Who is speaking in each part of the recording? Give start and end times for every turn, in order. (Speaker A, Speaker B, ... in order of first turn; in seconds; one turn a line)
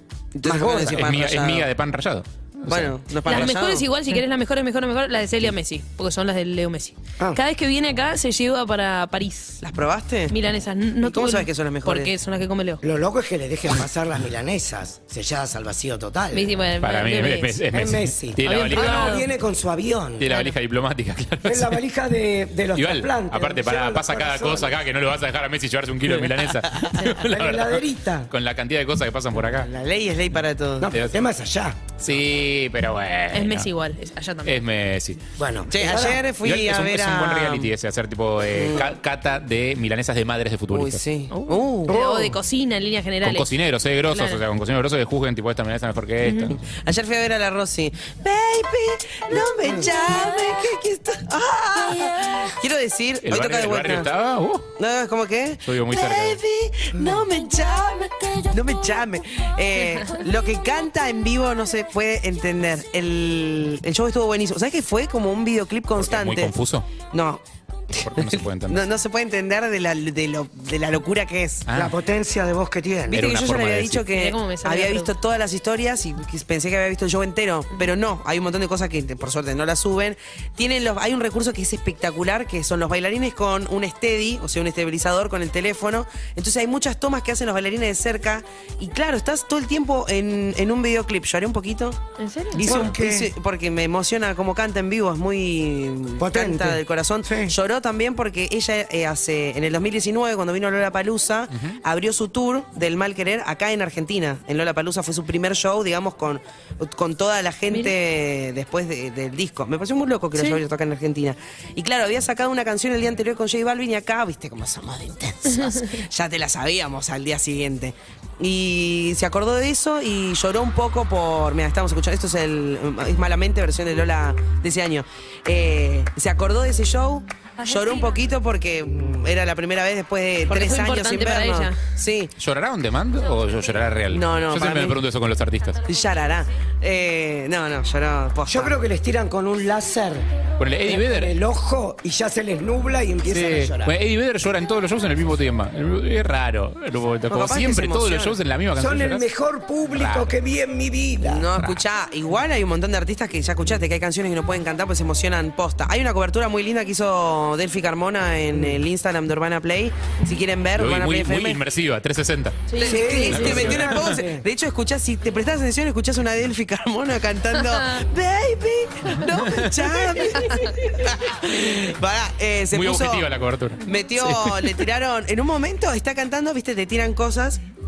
Speaker A: 0.3-1.7
Speaker B: 0.4-1.1
Speaker C: 0.8-3.5
Speaker A: 2.7-3.9
Speaker D: 3.3-9.6
Speaker A: 9.6-10.3
Speaker D: 10.3-12.8
Speaker A: 11.0-12.1
Speaker B: 12.8-16.6
Speaker D: 16.3-17.6
Speaker C: 16.8-19.2
Speaker B: 17.7-20.3
Speaker D: 18.4-19.3
Speaker C: 20.2-21.8
Speaker D: 20.2-20.6
Speaker B: 21.4-24.8
Speaker C: 22.8-29.7
Speaker A: 26.7-27.0
Speaker B: 27.2-28.3
Speaker A: 29.6-30.9
Speaker B: 30.8-31.8
Speaker C: 32.0-33.7
Speaker D: 33.3-34.6
Speaker C: 34.5-35.2
Speaker B: 35.4-36.2
Speaker A: 35.7-37.7
Speaker C: 36.4-41.0
Speaker A: 38.5-38.9
Speaker A: 40.7-42.0
Speaker D: 41.3-43.5
Speaker B: 41.9-42.4
Speaker C: 43.2-46.6
Speaker D: 44.1-44.4
Speaker D: 46.2-46.5
Speaker A: 46.6-54.1
Speaker C: 53.2-54.7
Speaker A: 54.8-66.5
Speaker C: 55.6-56.4
Speaker B: 56.9-57.3
Speaker C: 66.0-66.9
Speaker A: 67.1-67.4
Speaker C: 68.0-68.9
Speaker A: 68.0-71.7
Speaker C: 71.7-72.0
Speaker B: 71.7-73.2
Speaker C: 73.1-74.1
Speaker A: 73.1-92.0
Speaker D: 74.1-75.1
Speaker D: 92.2-92.6
Speaker A: 92.5-132.3
Speaker B: 92.6-93.3
Speaker B: 96.2-97.5
Speaker C: 101.5-101.8
Speaker D: 110.3-110.6
Speaker D: 115.5-116.0
Speaker D: 130.5-131.8
Speaker C: 132.4-135.8
Speaker A: 134.1-135.0
Speaker A: 135.8-138.7
Speaker B: 138.5-140.3
Speaker C: 140.6-141.3
Speaker B: 140.9-143.9
Speaker C: 143.3-149.3
Speaker A: 147.3-148.4
Speaker B: 148.8-151.5
Speaker C: 149.9-150.3
Speaker A: 151.2-161.6
Speaker B: 158.5-158.8
Speaker C: 160.8-164.2
Speaker D: 162.7-163.7
Speaker B: 162.8-164.5
Speaker A: 162.8-173.3
Speaker C: 169.3-170.2
Speaker C: 172.7-174.8
Speaker A: 173.8-177.6